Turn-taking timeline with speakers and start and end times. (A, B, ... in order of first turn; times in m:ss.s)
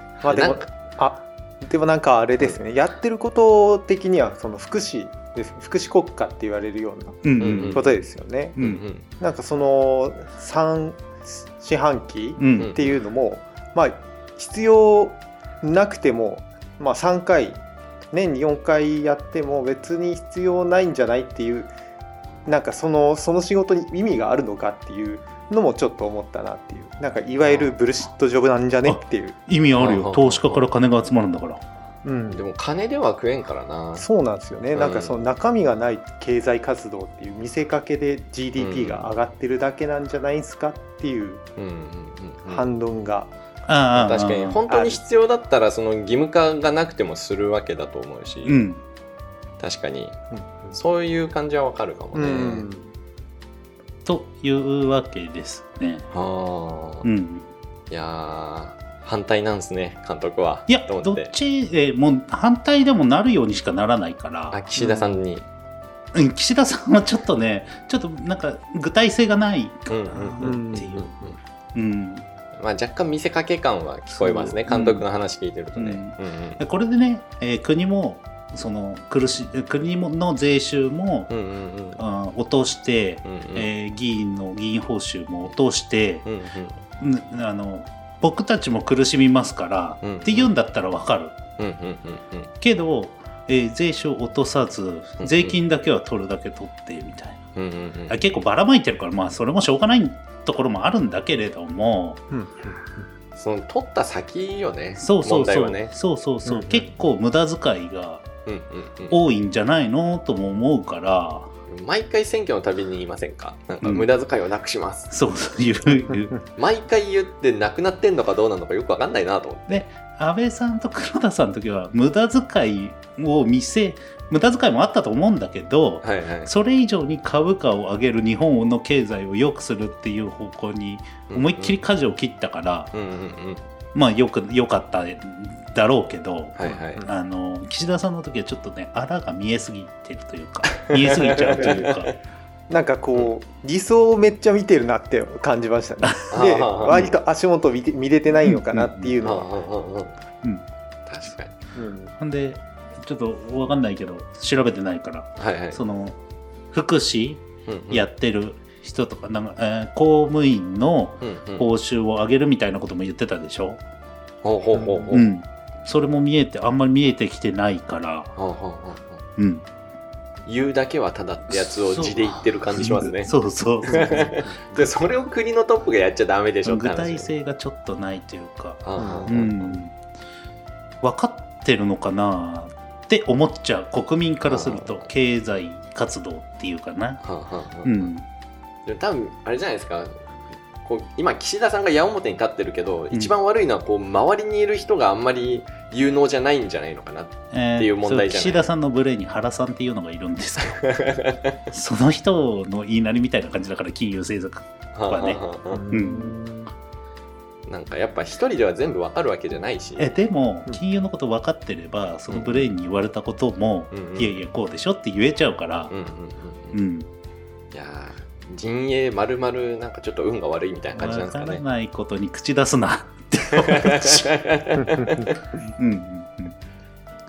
0:00.2-0:08.6 A
0:00.2-0:00.6 B
0:07.2-0:07.9 C
0:07.4-0:08.0 B
0:08.6-0:08.8 C
0:08.6-0:09.0 B
0:09.2-0:17.6 A
0:12.4-0:12.7 C
0:12.6-0:12.9 B
0:18.1-0:21.7 A
0:22.4-0:29.4 A
0:27.5-0:27.7 B
0:28.8-0:31.6 C
0:29.8-0:30.6 B
0:32.0-0:32.4 A
0:32.3-0:34.1 B
0:34.0-0:41.4 A
0:34.7-0:35.1 B
0:38.6-0:39.1 B
0:41.6-0:42.6 B
0:42.5-0:43.3 A
0:43.7-0:44.6 C
0:43.9-0:48.6 B
0:44.7-0:45.0 A
0:48.4-0:48.8 C
0:49.6-0:50.2 B
0:50.3-0:50.7 A
0:50.7-0:52.7 B
0:52.1-0:52.9 A
0:54.0-0:56.0 C
0:56.1-0:57.1 B
0:57.0-0:57.4 C
0:57.9-1:01.3 B
1:00.7-1:04.6 C
1:04.5-1:05.4 B
1:04.8-1:05.1 A
1:06.1-1:11.1 C
1:09.9-1:11.4 B
1:10.4-1:10.9 A
1:11.7-1:12.2 C
1:12.6-1:16.6 B
1:14.2-1:15.0 C
1:15.8-1:21.3 C
1:21.3-1:22.0 B
1:22.0-1:26.2 C
1:23.2-1:23.7 B
1:26.2-1:26.8 B
1:27.0-1:31.4 C
1:30.0-1:30.5 B
1:31.6-1:32.5 B
1:32.6-1:37.4 C
1:35.2-1:35.6 B
1:37.6-1:38.2 B
1:38.1-1:42.2 C
1:42.3-1:43.0 A
1:43.4-1:45.9 B
1:45.0-1:48.2 C
1:46.4-1:46.9 A
1:48.4-1:49.2 B
1:49.1-1:51.5 C
1:51.7-1:55.1 B
1:53.8-1:54.1 C
1:55.1-1:56.3 C
1:56.6-1:59.8 B
1:59.7-2:12.9 C
2:06.0-2:06.5 B
2:11.3-2:11.8 B
2:12.9-2:13.6 B
2:13.9-2:22.1 C
2:16.6-2:17.0 B
2:20.7-2:22.1 B
2:22.7-2:29.5 A
2:26.3-2:27.2 B
2:28.4-2:29.1 C
2:29.2-2:30.2 B
2:31.1-2:31.5 B
2:31.7-2:32.1 A
2:32.2-2:36.2 C
2:35.4-2:35.8 B
2:36.7-2:43.8 C
2:37.7-2:38.0 B
2:41.2-2:41.6 B
2:44.4-2:45.3 B
2:44.7-2:45.1 A
2:45.1-2:48.3 C
2:48.4-2:49.2 B
2:49.4-2:49.6 C
2:50.4-2:53.3 B
2:51.5-2:54.4 C
2:53.8-2:57.3 B
2:56.6-2:59.9 C
2:58.8-2:59.8 B
2:59.0-2:59.3 A
3:01.0-3:07.2 C
3:04.4-3:05.0 B
3:07.2-3:08.1 B
3:07.8-3:08.2 C
3:08.8-3:10.2 B
3:10.8-3:18.6 B
3:17.5-3:20.9 C
3:20.8-3:21.6 B
3:21.7-3:26.4 C
3:24.9-3:25.8 B
3:25.7-3:26.7 A
3:27.7-3:30.1 B
3:30.0-3:35.9 C
3:32.3-3:32.7 B
3:33.9-3:34.4 B
3:35.9-3:36.8 B
3:36.7-3:37.1 C
3:37.7-3:41.6 B
3:40.9-3:44.3 C
3:43.5-3:45.4 B
3:45.7-3:46.5 C